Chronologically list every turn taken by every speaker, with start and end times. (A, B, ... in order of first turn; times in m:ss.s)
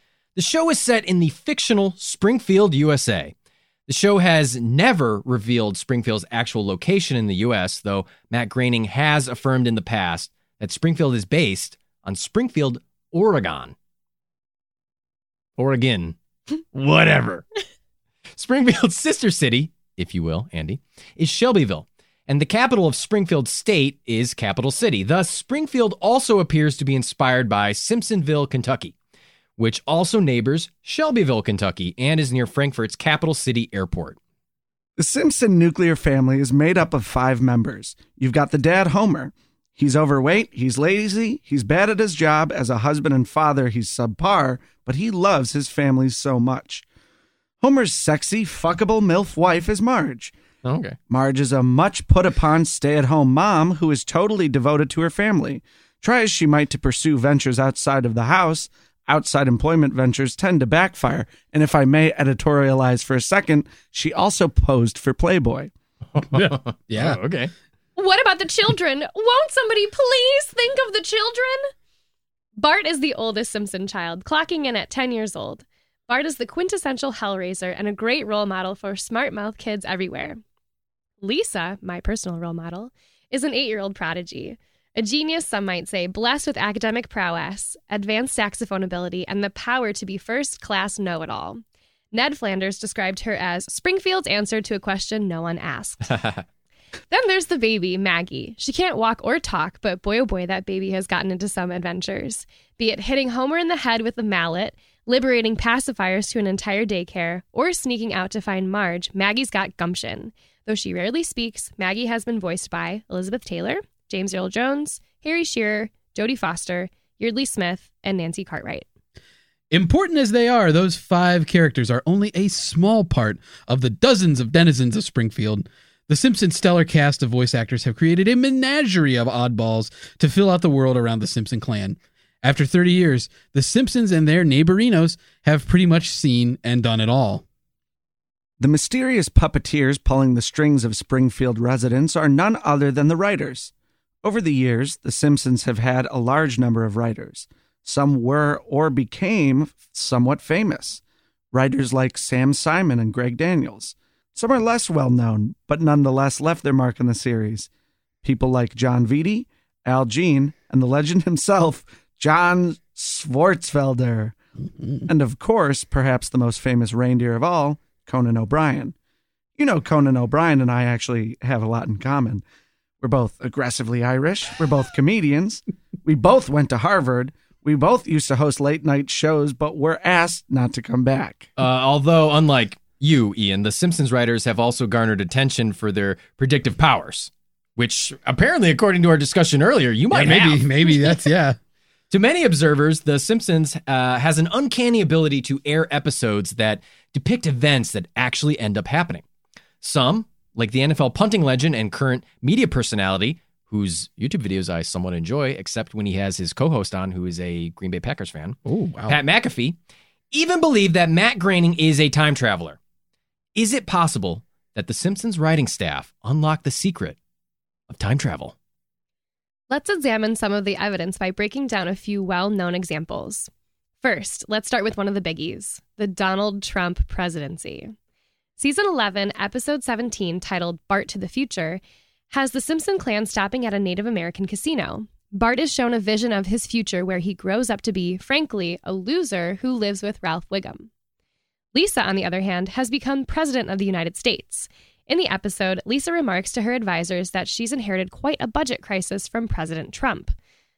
0:00.4-0:03.3 A
0:03.9-0:13.8 A
0:15.6-0:16.2 A
0:16.7-0:17.5 A
0:18.4-0:28.9 A
0:29.6-0:34.2 A
0:35.0-0:46.8 B
0:47.6-0:50.3 B
0:50.6-0:51.0 A
0:51.1-1:05.7 B
1:06.2-1:07.5 A
1:06.3-1:07.2 C
1:08.0-1:11.6 D
1:12.6-1:20.4 D
1:21.2-1:36.2 D
1:36.1-1:36.4 A
1:37.1-1:58.9 D
1:59.7-2:17.4 C
2:18.6-2:23.7 B
2:24.2-2:37.7 B
2:38.2-2:44.4 B
2:44.8-2:45.1 C
2:45.1-2:49.0 B
2:49.6-2:52.4 B
2:53.0-3:01.5 B
3:01.6-3:11.1 A
3:10.1-3:11.6 C
3:12.1-3:19.2 A
3:19.8-3:29.8 A
3:28.7-3:29.2 C
3:30.3-3:32.8 A
3:33.6-3:37.2 A
3:37.9-3:38.6 A
3:39.7-3:43.5 D
3:44.0-3:47.9 D
3:48.6-4:00.9 D
4:01.7-4:10.4 D